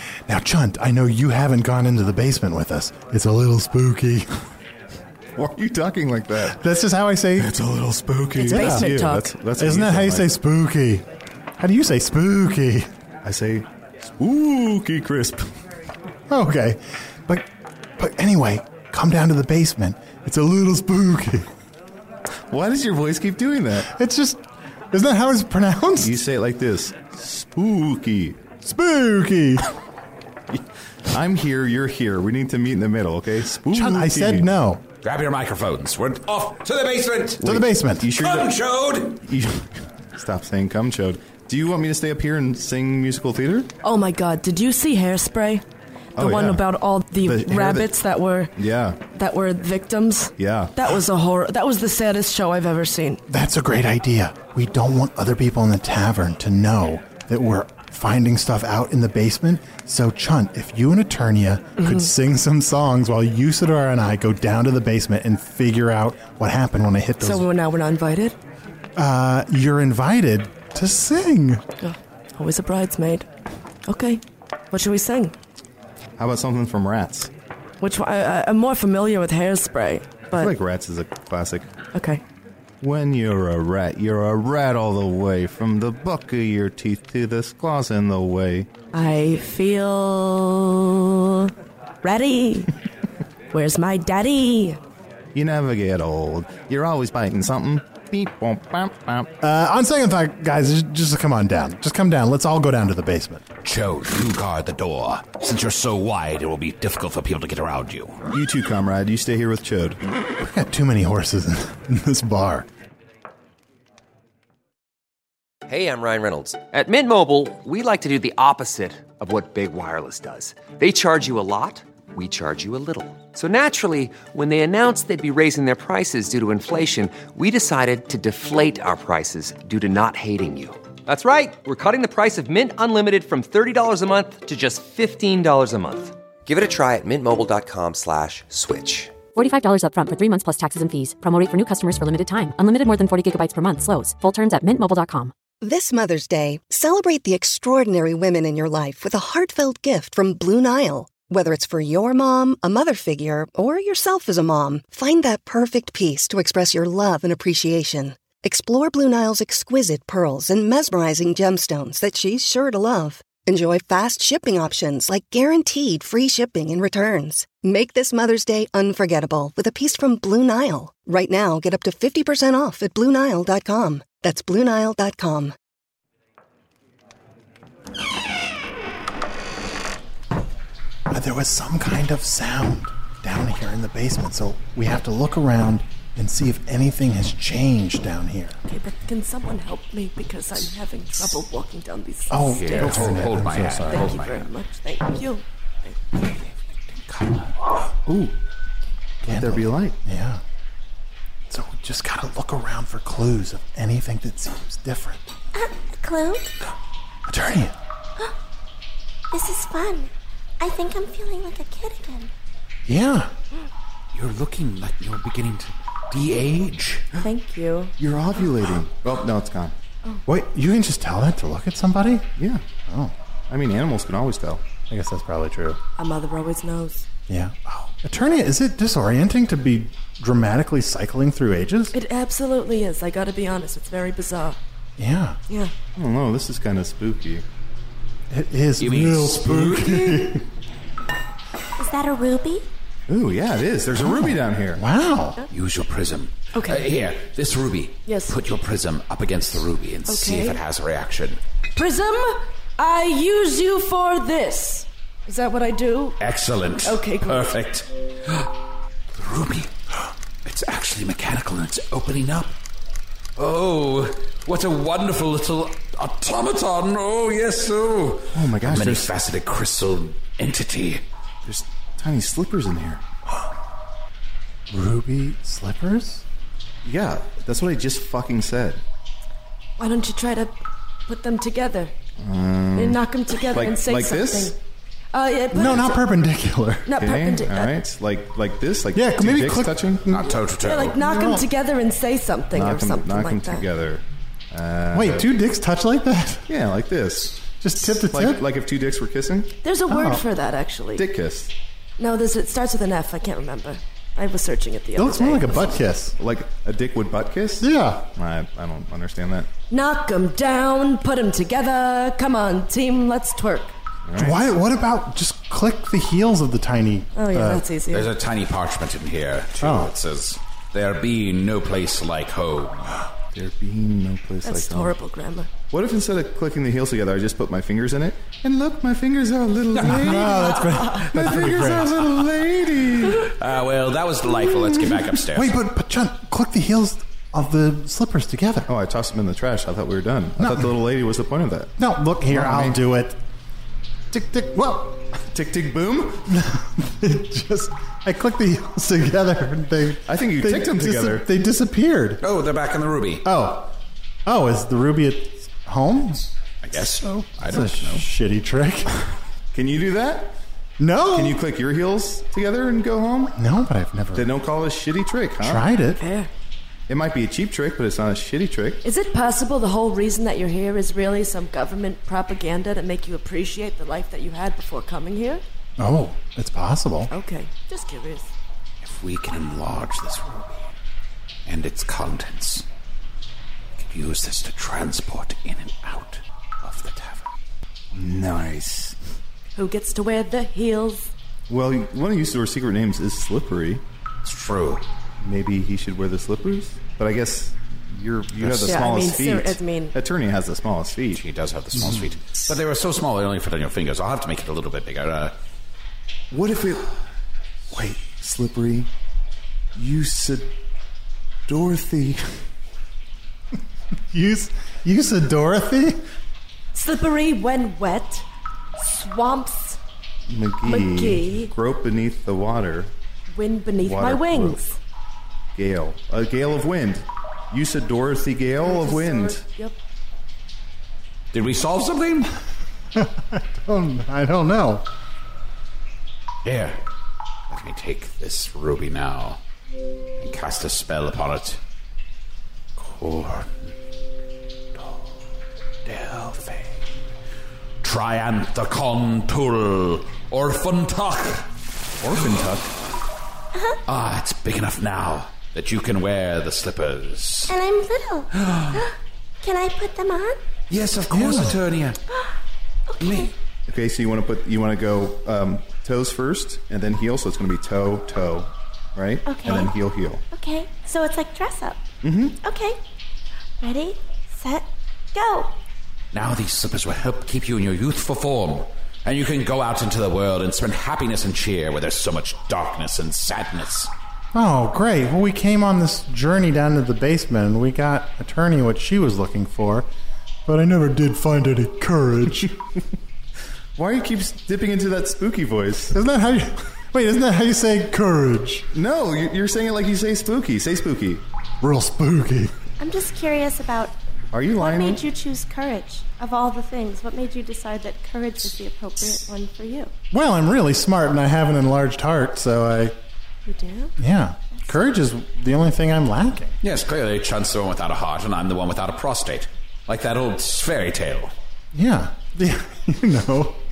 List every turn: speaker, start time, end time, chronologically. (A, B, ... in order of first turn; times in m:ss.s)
0:00.3-0:04.4 A
0:05.4-0:06.6 B
0:06.4-0:07.5 A
0:07.4-0:10.3 B
0:08.4-0:09.3 C
0:08.5-0:09.0 A
0:09.6-0:11.0 A
0:11.6-0:12.9 A
0:13.2-0:15.5 B
0:16.3-0:21.5 A
0:22.5-0:23.9 B
0:23.8-0:24.4 A
0:24.9-0:26.2 A
0:26.0-0:28.4 B
0:28.6-0:29.7 A
0:31.1-0:34.5 B
0:33.6-0:34.8 A
0:35.0-0:37.5 D
0:37.4-0:38.1 A
0:37.4-0:38.5 B
0:38.2-0:39.2 D
0:39.2-0:43.7 B
0:43.8-0:45.6 C
0:46.2-0:46.6 B
0:46.2-0:48.5 C
0:47.2-0:47.9 B
0:48.6-0:49.0 B
0:49.1-0:53.2 C
0:50.4-0:50.7 B
0:53.3-1:07.5 A
1:01.8-1:02.1 C
1:07.2-1:08.4 C
1:09.0-1:11.6 A
1:11.8-1:13.3 C
1:13.9-1:15.3 C
1:16.2-1:17.3 B
1:17.8-1:20.5 C
1:20.3-1:21.7 B
1:21.9-1:22.2 C
1:22.8-1:28.7 B
1:28.9-1:31.5 C
1:32.0-1:32.7 C
1:33.5-1:34.8 C
1:35.3-1:39.3 B
1:39.4-1:43.4 A
1:43.6-1:48.2 D
1:48.3-1:50.0 B
1:50.4-1:52.7 A
1:55.7-2:19.2 E
2:19.3-2:25.3 F
2:25.6-2:55.5 G
3:01.1-3:08.6 A
3:08.6-3:13.2 C
3:12.3-3:14.1 A
3:12.5-3:14.5 D
3:13.9-3:16.0 C
3:16.9-3:17.5 D
3:18.1-3:18.3 B
3:19.2-3:20.0 B
3:19.2-3:20.4 A
3:21.5-3:25.3 A
3:25.5-3:26.5 H
3:27.3-3:27.7 A
3:29.3-3:32.3 H
3:32.8-3:33.3 A
3:34.1-3:37.0 D
3:37.2-3:37.9 C
3:38.0-3:39.7 B
3:40.3-3:42.3 A
3:42.4-3:42.6 B
3:42.9-3:43.1 A
3:43.5-3:44.6 B
3:44.9-3:45.8 A
3:46.0-3:47.0 C
3:47.3-3:51.9 A
3:51.9-3:54.6 C
3:55.0-3:55.4 A
3:55.9-3:57.4 B
3:58.3-4:00.4 A
3:58.8-4:00.3 D
4:01.8-4:02.7 H
4:03.1-4:04.8 B
4:03.9-4:05.4 A
4:05.5-4:11.4 D
4:06.5-4:06.9 C
4:08.0-4:08.4 C
4:10.1-4:10.6 C
4:11.8-4:16.2 C
4:16.2-4:18.5 D
4:16.8-4:17.5 C
4:19.2-4:19.7 D
4:20.4-4:22.5 D
4:23.4-4:31.0 D
4:28.3-4:29.1 B
4:31.4-4:33.0 B
4:34.7-4:36.2 A
4:36.8-4:38.8 B
4:39.8-4:41.9 C
4:42.2-4:44.6 B
4:42.7-4:44.6 C
4:45.1-4:46.0 C
4:45.5-4:47.0 A
4:46.8-4:47.7 C
4:47.0-4:50.2 B
4:48.9-4:50.4 A
4:50.1-4:51.0 D
4:50.6-4:53.6 C
4:51.0-4:51.4 A
4:52.5-4:55.3 B
4:54.9-4:56.5 A
4:56.5-4:59.5 B
4:57.6-4:58.4 A
4:59.6-5:01.0 C
4:59.9-5:00.2 A
5:01.0-5:01.5 B
5:02.0-5:05.8 C
5:05.0-5:06.1 A
5:06.2-5:09.5 B
5:07.6-5:08.1 A
5:09.7-5:13.7 C
5:14.0-5:14.4 B
5:14.2-5:17.6 A
5:17.1-5:18.1 C
5:17.9-5:23.0 D
5:19.6-5:19.9 A
5:23.3-5:24.9 B
5:24.4-5:25.5 C
5:25.7-5:33.3 B
5:29.7-5:32.1 D
5:29.8-5:32.0 A
5:33.1-5:35.6 D
5:35.3-5:38.7 A
5:38.7-5:41.7 B
5:40.4-5:40.7 A
5:41.8-5:43.2 A
5:42.3-5:42.8 B
5:44.1-5:45.0 A
5:45.2-5:46.2 B
5:46.3-5:52.2 A
5:50.1-5:51.3 B
5:52.2-5:53.2 D
5:53.2-5:53.7 A
5:54.2-5:56.2 A
5:56.6-5:58.0 D
5:57.0-5:59.0 A
5:59.5-6:00.4 B
6:00.8-6:01.4 A
6:01.1-6:03.4 B
6:03.4-6:04.3 A
6:04.1-6:05.7 B
6:05.4-6:06.0 A
6:06.0-6:06.3 C
6:06.9-6:08.8 B
6:08.8-6:15.4 C
6:15.8-6:17.1 A
6:17.1-6:18.3 C
6:18.8-6:20.7 D
6:21.4-6:22.6 D
6:23.8-6:27.3 D
6:27.9-6:29.0 B
6:29.6-6:31.1 C
6:31.5-6:33.8 B
6:34.2-6:34.8 D
6:35.2-6:41.2 B
6:38.6-6:39.9 C
6:41.1-6:45.3 D
6:46.3-6:46.9 B
6:47.7-6:48.9 B
6:49.7-6:50.5 B
6:51.5-6:52.4 B
6:54.1-6:56.0 A
6:56.7-6:58.2 C
6:58.8-6:59.8 C
7:00.3-7:02.9 B
7:00.6-7:01.5 C
7:03.3-7:04.8 C
7:03.8-7:04.6 B
7:05.5-7:09.4 B
7:08.6-7:09.8 C
7:11.3-7:12.3 D
7:12.9-7:14.8 A
7:16.4-7:16.8 D
7:17.5-7:19.4 D
7:20.2-7:21.6 D
7:22.8-7:23.7 D
7:25.8-7:26.8 D
7:27.8-7:31.5 D
7:32.0-7:32.7 B
7:33.5-7:33.8 H
7:33.8-7:37.5 D
7:37.5-7:38.9 H
7:38.3-7:38.8 D
7:39.4-7:40.4 H
7:40.7-7:42.0 D
7:41.1-7:41.6 A
7:42.9-7:43.3 H
7:43.0-7:43.3 D
7:43.7-7:50.2 B
7:49.2-7:49.8 H
7:50.3-7:51.8 H
7:52.0-7:52.4 B
7:52.4-7:52.8 H
7:53.6-7:55.5 H
7:56.1-8:03.9 D
8:04.3-8:09.9 A
8:10.4-8:12.5 A
8:13.8-8:15.9 B
8:15.9-8:18.7 A
8:18.7-8:21.2 B
8:21.6-8:22.5 A
8:22.8-8:23.9 H
8:24.3-8:25.0 B
8:24.6-8:29.9 H
8:30.1-8:32.9 A
8:33.4-8:33.9 H
8:34.0-8:36.5 A
8:36.6-8:41.3 D
8:41.7-8:43.6 A